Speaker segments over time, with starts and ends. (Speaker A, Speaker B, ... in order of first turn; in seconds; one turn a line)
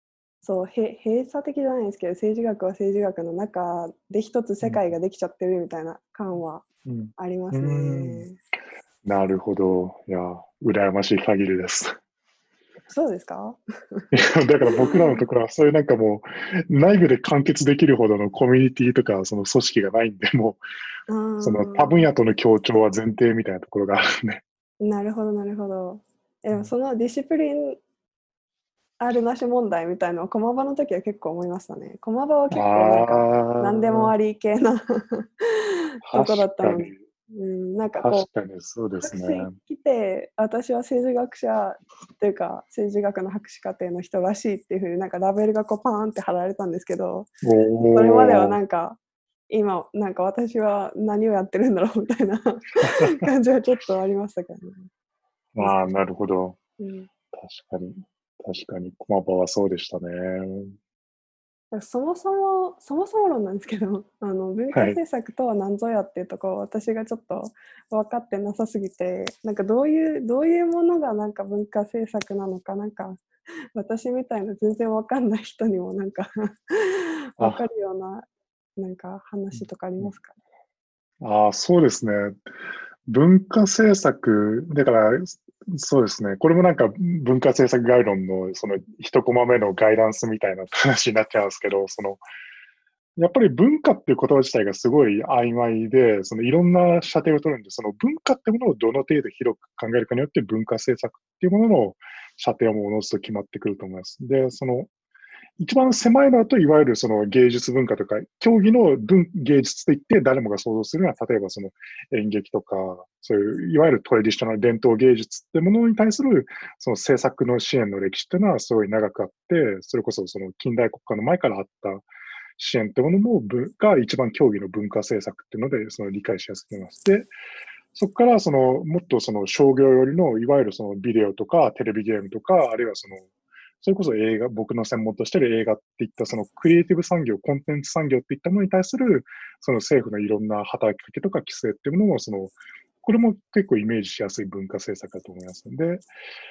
Speaker A: 0.4-8.4
Speaker B: 4.6-4.9
Speaker B: 6.8-8.3
Speaker B: 9.0-11.9
Speaker A: 12.9-14.0
Speaker B: 14.1-20.6
Speaker A: 14.7-15.2
Speaker A: 21.1-22.1
Speaker B: 21.4-24.4
Speaker A: 24.8-27.8
Speaker A: 29.0-38.3
Speaker B: 32.5-34.1
Speaker B: 36.0-37.0
Speaker B: 38.0-39.6
Speaker A: 39.0-47.3
Speaker B: 47.4-48.6
Speaker A: 47.9-49.0
Speaker A: 49.5-54.9
Speaker B: 52.8-53.3
Speaker B: 55.5-56.6
Speaker A: 55.6-55.9
Speaker A: 56.8-57.1
Speaker B: 57.3-60.8
Speaker A: 61.7-80.3
Speaker B: 64.7-65.0
Speaker B: 77.4-77.7
Speaker B: 79.5-80.1
Speaker B: 81.2-82.5
Speaker B: 83.1-92.2
Speaker B: 93.2-104.9
Speaker B: 105.6-127.3
Speaker B: 127.9-133.3
Speaker B: 133.8-146.1